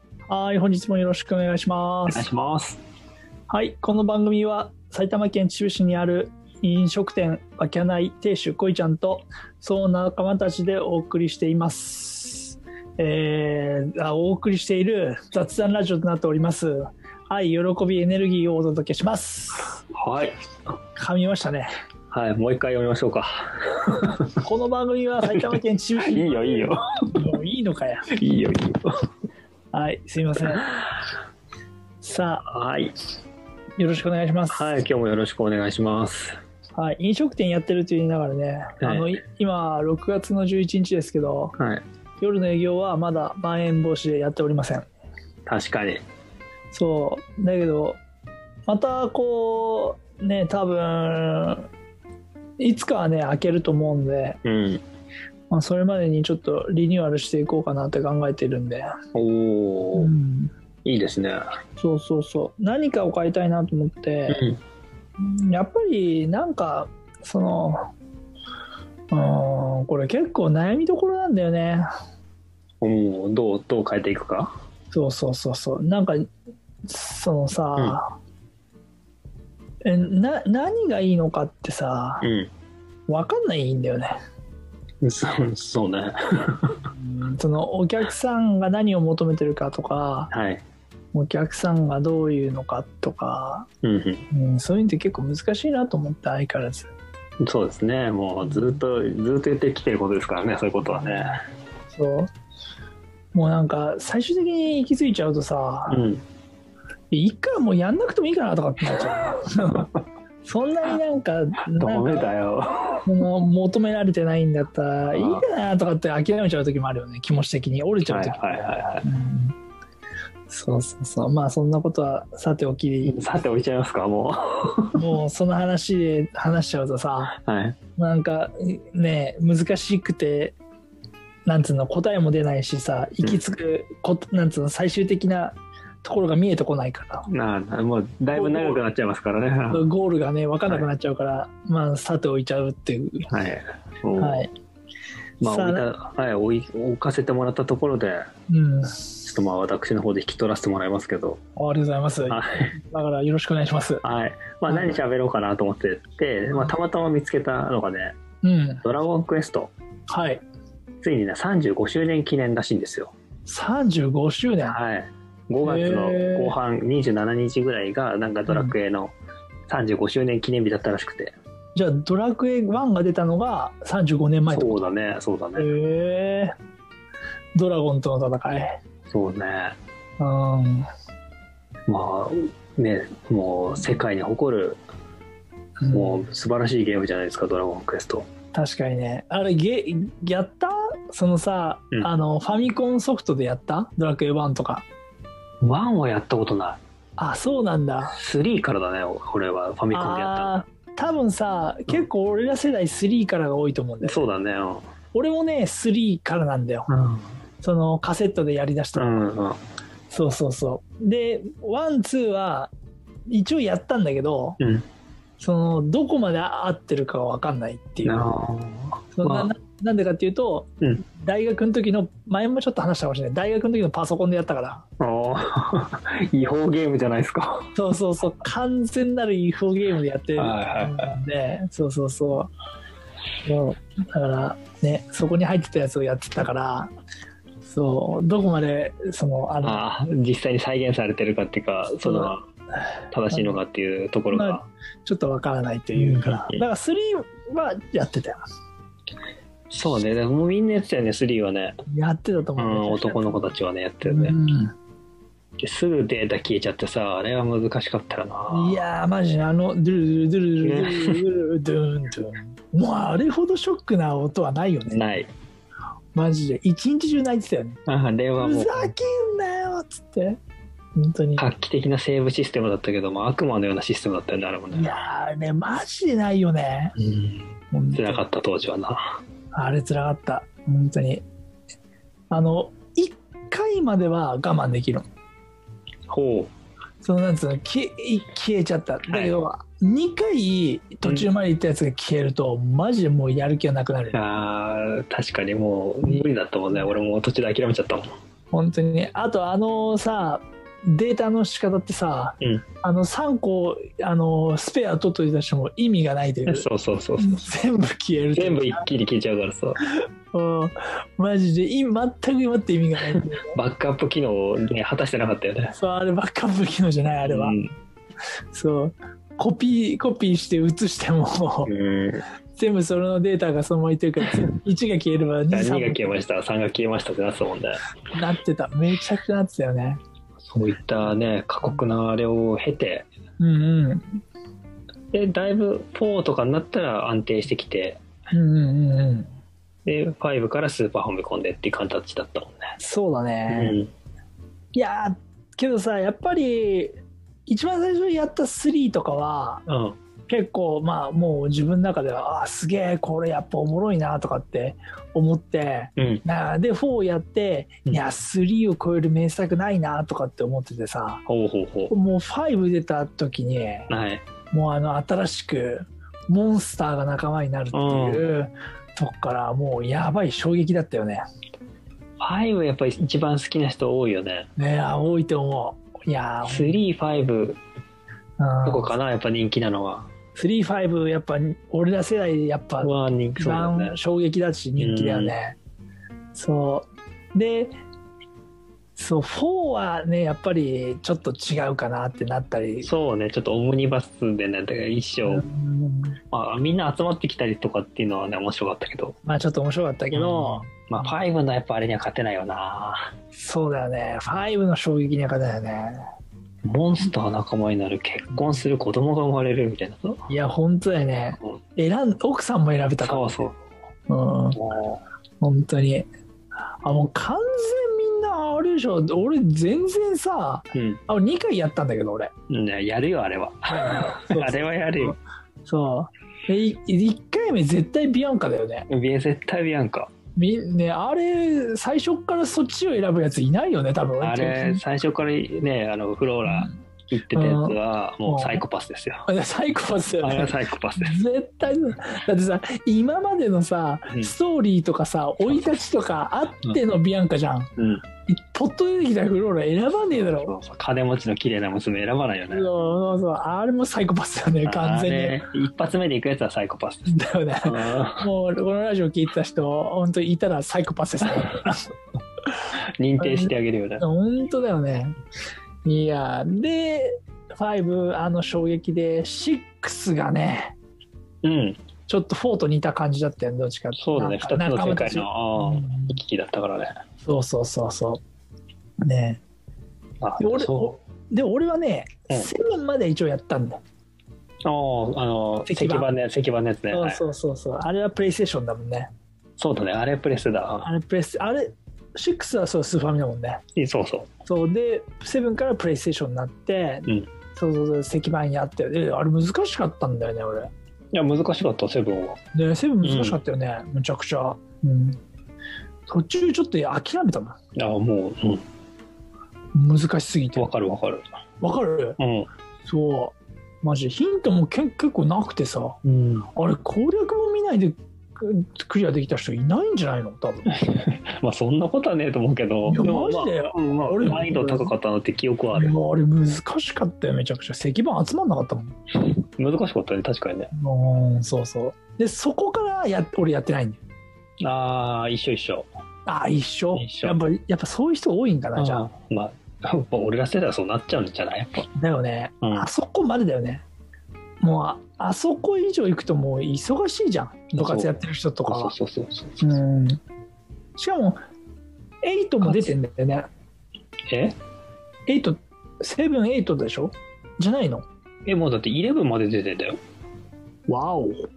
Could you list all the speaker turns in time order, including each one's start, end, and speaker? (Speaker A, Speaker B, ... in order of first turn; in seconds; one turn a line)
Speaker A: 0.3-2.3
Speaker B: 2.1-2.8
Speaker A: 3.5-19.8
Speaker B: 19.9-20.4
Speaker A: 21.0-21.7
Speaker B: 22.1-24.3
Speaker A: 24.4-28.1
Speaker B: 25.3-26.9
Speaker B: 28.1-28.9
Speaker A: 29.7-30.7
Speaker A: 32.0-32.5
Speaker B: 32.5-33.0
Speaker A: 33.8-34.8
Speaker B: 34.5-36.4
Speaker A: 36.8-41.5
Speaker B: 38.8-39.2
Speaker B: 41.6-41.8
Speaker A: 42.2-44.9
Speaker B: 45.5-46.0
Speaker A: 46.7-48.0
Speaker A: 48.7-51.7
Speaker A: 52.6-54.4
Speaker B: 54.4-54.8
Speaker A: 55.5-58.9
Speaker B: 59.1-60.1
Speaker A: 60.0-60.5
Speaker B: 60.8-61.4
Speaker A: 61.8-64.4
Speaker B: 64.3-64.6
Speaker A: 65.2-67.8
Speaker A: 69.1-71.9
Speaker B: 72.8-74.5
Speaker A: 74.9-76.3
Speaker A: 76.8-78.2
Speaker A: 79.8-82.3
Speaker B: 82.2-82.5
Speaker A: 83.1-84.2
Speaker B: 85.0-86.8
Speaker A: 86.9-90.3
Speaker B: 90.3-90.6
Speaker A: 91.1-93.7
Speaker B: 93.8-94.2
Speaker A: 94.3-96.9
Speaker B: 97.4-101.4
Speaker A: 98.4-98.8
Speaker A: 100.8-101.4
Speaker A: 101.9-102.3
Speaker A: 103.3-106.1
Speaker B: 105.9-106.2
Speaker A: 107.1-109.9
Speaker A: 110.4-112.3
Speaker B: 111.7-113.1
Speaker A: 113.1-119.5
Speaker B: 115.1-115.5
Speaker B: 118.0-119.0
Speaker A: 120.5-123.2
Speaker B: 123.0-125.0
Speaker A: 125.0-127.3
Speaker B: 127.3-127.8
Speaker A: 128.0-130.5
Speaker A: 131.4-137.3
Speaker B: 137.3-139.9
Speaker A: 138.3-138.8
Speaker A: 139.7-143.3
Speaker B: 143.3-144.5
Speaker A: 144.2-144.5
Speaker B: 145.4-148.2
Speaker A: 145.4-145.9
Speaker A: 148.5-149.2
Speaker B: 149.2-151.4
Speaker A: 151.6-154.0
Speaker B: 152.3-152.7
Speaker B: 154.0-158.2
Speaker A: 154.7-155.0
Speaker A: 158.4-158.8
Speaker B: 158.8-159.7
Speaker A: 160.1-160.4
Speaker B: 161.0-163.1
Speaker A: 163.4-164.8
Speaker B: 164.7-169.1
Speaker A: 165.6-166.5
Speaker A: 168.5-168.7
Speaker B: 169.7-171.3
Speaker A: 171.7-174.8
Speaker B: 174.5-175.7
Speaker A: 175.6-176.5
Speaker A: 177.5-178.8
Speaker B: 179.1-179.7
Speaker A: 180.2-180.9
Speaker B: 181.9-184.8
Speaker A: 185.8-186.2
Speaker B: 185.9-188.2
Speaker A: 188.5-194.8
Speaker B: 195.6-196.8
Speaker A: 197.2-198.2
Speaker B: 198.1-200.6
Speaker A: 199.9-204.2
Speaker B: 204.0-204.9
Speaker A: 205.1-206.9
Speaker B: 206.9-207.2
Speaker A: 207.6-209.2
Speaker B: 208.9-209.6
Speaker A: 210.1-212.7
Speaker A: 213.3-214.6
Speaker B: 214.6-214.8
Speaker A: 215.4-218.3
Speaker B: 218.0-219.5
Speaker A: 219.1-224.8
Speaker B: 225.0-227.7
Speaker A: 227.7-232.5
Speaker B: 230.4-231.1
Speaker A: 233.4-236.9
Speaker A: 237.6-239.8
Speaker B: 239.6-242.4
Speaker A: 242.0-242.3
Speaker B: 243.1-244.6
Speaker A: 243.3-243.6
Speaker A: 244.3-248.4
Speaker B: 245.9-246.6
Speaker B: 249.7-251.7
Speaker A: 251.9-253.4
Speaker B: 252.6-254.3
Speaker A: 254.0-254.7
Speaker B: 255.6-258.8
Speaker A: 258.5-265.0
Speaker B: 260.6-261.2
Speaker B: 264.9-265.3
Speaker A: 266.1-267.8
Speaker B: 267.9-268.9
Speaker A: 268.4-270.4
Speaker A: 271.0-271.5
Speaker B: 271.4-275.0
Speaker A: 274.7-277.0
Speaker B: 277.0-279.2
Speaker A: 277.7-278.2
Speaker A: 279.5-281.2
Speaker A: 282.3-285.1
Speaker B: 286.1-286.5
Speaker A: 287.0-294.2
Speaker B: 289.1-289.4
Speaker B: 291.0-291.3
Speaker B: 294.1-298.1
Speaker A: 298.5-306.7
Speaker B: 306.5-307.4
Speaker A: 307.2-308.8
Speaker B: 308.4-309.8
Speaker A: 310.3-313.6
Speaker B: 313.2-315.8
Speaker A: 315.7-317.6
Speaker B: 317.2-317.7
Speaker A: 318.5-321.7
Speaker B: 321.7-322.2
Speaker A: 322.6-326.2
Speaker B: 325.5-327.8
Speaker A: 328.1-330.0
Speaker B: 330.5-333.1
Speaker A: 333.4-334.2
Speaker B: 335.1-338.0
Speaker A: 338.3-339.3
Speaker B: 339.9-342.6
Speaker A: 342.8-343.8
Speaker B: 343.5-343.9
Speaker A: 344.8-349.6
Speaker B: 349.7-350.0
Speaker A: 350.3-361.2
Speaker B: 356.0-356.2
Speaker B: 361.2-361.9
Speaker A: 361.9-363.9
Speaker B: 363.9-364.2
Speaker A: 364.5-371.2
Speaker B: 367.7-368.3
Speaker B: 372.2-374.5
Speaker A: 374.6-376.8
Speaker B: 376.4-377.6
Speaker A: 378.4-378.9
Speaker B: 378.6-380.1
Speaker A: 380.4-385.6
Speaker B: 382.8-384.0
Speaker B: 384.8-385.4
Speaker A: 386.4-387.7
Speaker A: 389.0-392.9
Speaker B: 392.8-395.4
Speaker A: 395.2-396.2
Speaker B: 396.3-399.1
Speaker A: 399.2-401.0
Speaker B: 400.1-403.1
Speaker A: 403.3-406.1
Speaker B: 406.6-410.3
Speaker A: 410.3-413.4
Speaker B: 413.0-413.6
Speaker A: 414.1-414.6
Speaker B: 414.6-415.0
Speaker A: 415.4-416.1
Speaker A: 416.8-422.3
Speaker B: 420.7-421.0
Speaker B: 422.5-425.2
Speaker A: 423.7-428.9
Speaker B: 428.9-430.1
Speaker A: 430.4-434.8
Speaker B: 434.2-439.2
Speaker A: 436.4-436.8
Speaker A: 437.4-438.6
Speaker A: 439.3-447.7
Speaker B: 440.2-441.2
Speaker B: 447.8-448.0
Speaker A: 448.3-450.5
Speaker B: 450.1-452.7
Speaker A: 452.5-455.4
Speaker B: 454.6-458.3
Speaker A: 457.1-461.9
Speaker B: 463.0-464.0
Speaker A: 463.2-465.2
Speaker A: 465.9-470.8
Speaker B: 471.4-471.8
Speaker A: 472.1-476.2
Speaker B: 474.0-476.9
Speaker A: 477.2-478.2
Speaker A: 479.0-479.4
Speaker B: 480.2-481.0
Speaker A: 480.4-483.8
Speaker B: 484.6-487.2
Speaker A: 485.7-486.1
Speaker A: 486.9-489.1
Speaker B: 489.6-490.9
Speaker A: 490.8-493.6
Speaker B: 493.8-494.3
Speaker A: 494.5-500.7
Speaker B: 501.1-502.4
Speaker A: 502.5-505.2
Speaker B: 503.0-503.4
Speaker A: 506.1-507.6
Speaker B: 507.8-508.6
Speaker A: 509.7-510.7
Speaker B: 510.6-511.2
Speaker A: 511.6-512.2
Speaker B: 512.2-512.5
Speaker A: 512.9-516.0
Speaker B: 516.0-516.5
Speaker A: 516.5-520.8
Speaker B: 520.7-526.0
Speaker A: 522.9-524.9
Speaker A: 525.7-529.0
Speaker B: 529.3-530.7
Speaker A: 530.7-534.0
Speaker B: 534.6-535.9
Speaker A: 536.2-539.0
Speaker B: 536.9-537.4
Speaker B: 538.8-541.9
Speaker A: 542.0-543.8
Speaker B: 542.6-542.9
Speaker A: 544.6-548.9
Speaker B: 547.7-549.6
Speaker A: 549.6-550.2
Speaker A: 551.0-551.4
Speaker A: 552.2-553.5
Speaker B: 552.6-553.0
Speaker B: 554.3-554.5
Speaker A: 555.3-558.1
Speaker B: 558.5-560.0
Speaker A: 560.9-561.5